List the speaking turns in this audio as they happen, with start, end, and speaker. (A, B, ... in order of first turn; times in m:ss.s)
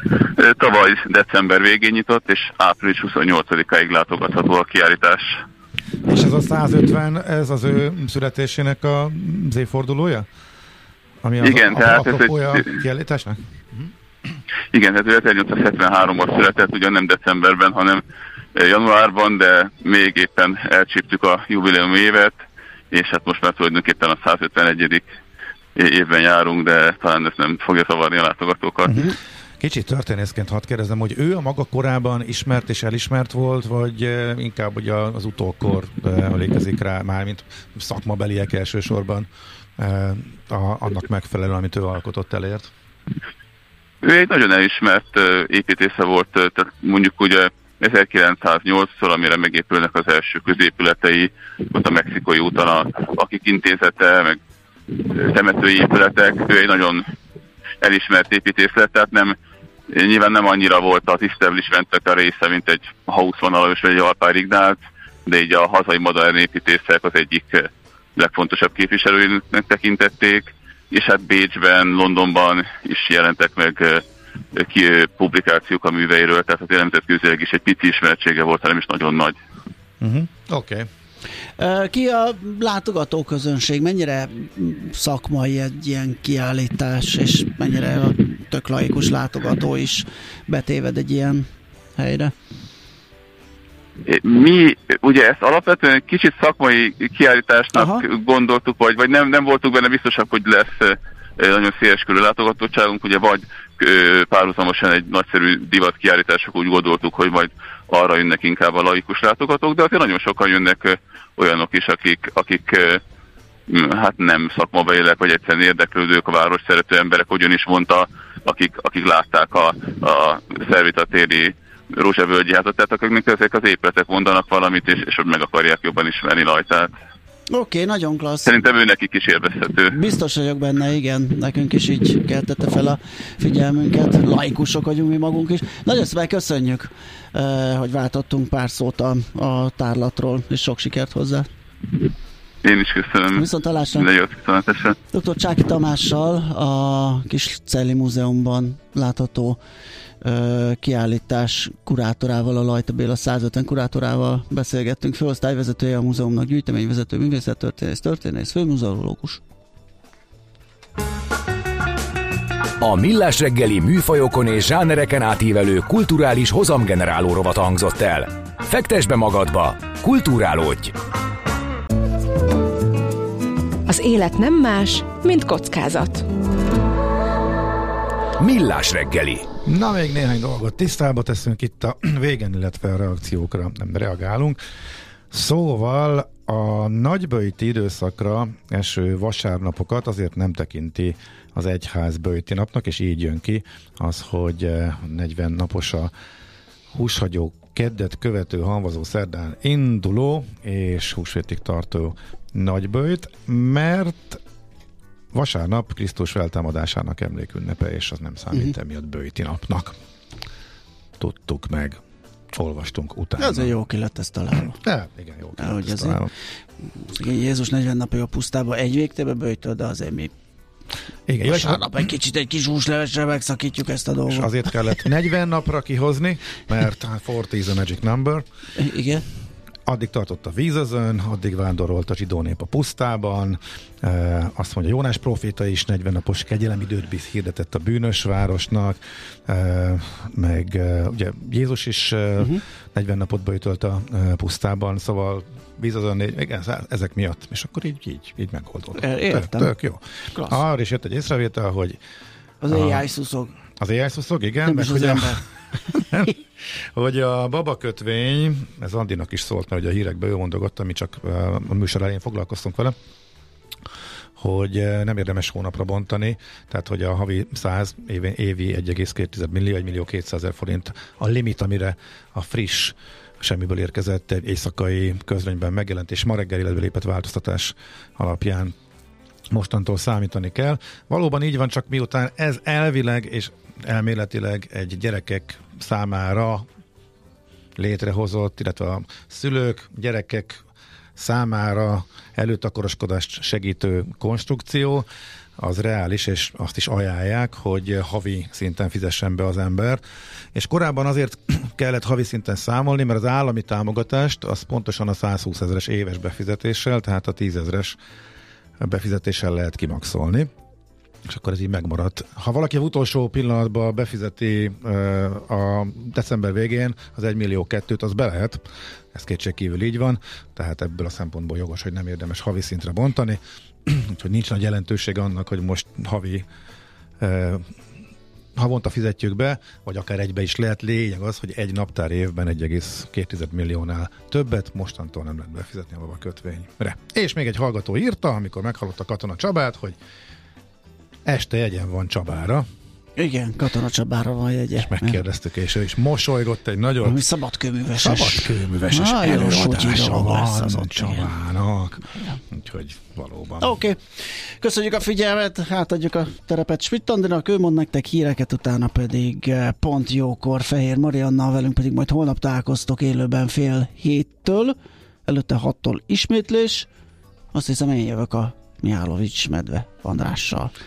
0:00.3-0:05.4 A
0:06.1-0:10.3 B
0:11.2-0:13.9 B
0:11.4-0:12.8 A
0:14.7-0:18.0 A
0:18.5-0:25.1 A
0:25.7-0:29.0 A
0:29.6-0:42.7 B
0:44.0-0:54.4 A
0:54.9-0:57.0 A
0:57.8-0:59.4 A
0:59.9-1:19.4 A
1:20.0-1:20.9 B
1:21.6-1:32.3 C
1:34.0-1:53.0 A
1:37.7-1:38.0 C
1:53.7-2:06.9 A
2:07.5-2:08.6 C
2:08.4-2:10.0 A
2:09.9-2:21.5 C
2:22.6-2:25.0 A
2:23.3-2:24.1 C
2:25.1-2:29.6 C
2:30.2-2:39.4 C
2:42.8-2:50.9 D
2:53.9-2:56.2 E
2:58.4-2:59.5 D
2:59.6-3:04.6 B
3:05.3-3:16.1 B
3:16.9-3:24.4 B
3:25.3-3:29.9 B
3:31.2-3:32.0 B
3:32.5-3:33.7 B
3:33.4-3:34.8 C
3:34.7-3:36.3 B
3:35.6-3:36.2 C
3:36.9-3:40.3 C
3:41.3-3:41.9 B
3:41.4-3:44.7 C
3:44.3-3:48.4 B
3:48.8-3:49.2 C
3:49.9-4:12.0 B
4:09.0-4:09.7 C
4:10.3-4:10.6 C
4:12.6-4:13.5 C
4:12.7-4:13.0 B
4:13.8-4:15.4 B
4:14.6-4:15.4 C
4:15.9-4:16.4 B
4:16.9-4:22.9 B
4:24.4-4:38.7 B
4:39.5-4:46.6 B
4:47.8-4:50.6 B
4:51.2-4:55.0 B
4:55.6-5:00.0 B
5:00.5-5:08.0 B
5:08.8-5:10.5 B
5:11.3-5:26.4 B
5:27.2-5:27.7 B
5:28.6-5:40.0 B
5:41.2-5:42.6 B
5:43.2-5:45.2 C
5:44.8-5:47.2 B
5:47.0-5:51.3 C
5:48.0-5:53.7 B
5:52.1-5:52.4 C
5:53.6-6:06.9 C
6:07.5-6:10.7 C